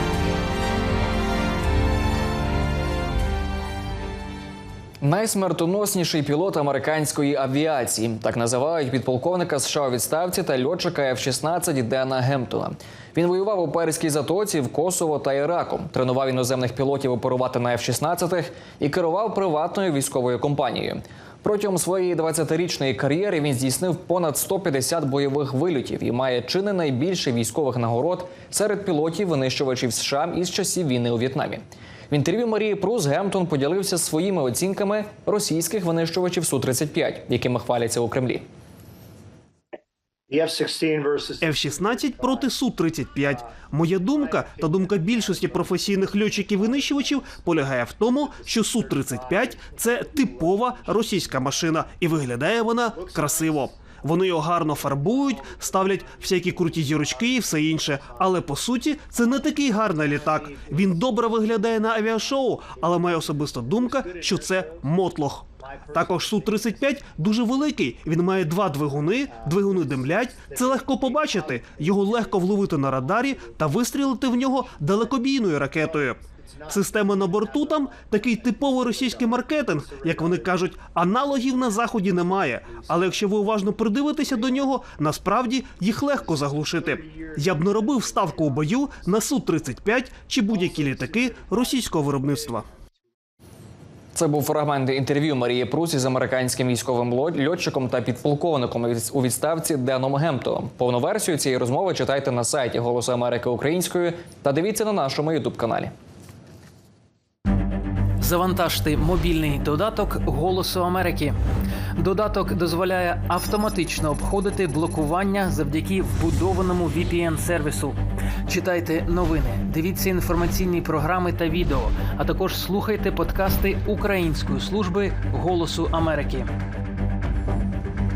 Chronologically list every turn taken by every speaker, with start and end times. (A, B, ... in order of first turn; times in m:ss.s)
0:05.0-0:38.4 A
0:40.3-0:42.5 B
0:41.4-1:32.6 C
0:44.1-0:47.5 B
0:48.2-0:51.6 B
0:52.9-0:53.7 B
0:55.0-0:58.3 B
1:00.0-1:01.0 B
1:02.7-1:04.9 B
1:05.6-1:07.1 B
1:09.0-1:13.6 B
1:14.4-1:15.2 B
1:15.8-1:20.7 B
1:21.4-1:23.2 B
1:24.3-1:24.7 B
1:26.1-1:28.8 B
1:30.5-1:32.6 B
1:34.2-1:45.9 A
1:48.2-1:51.4 D
1:52.0-2:06.5 D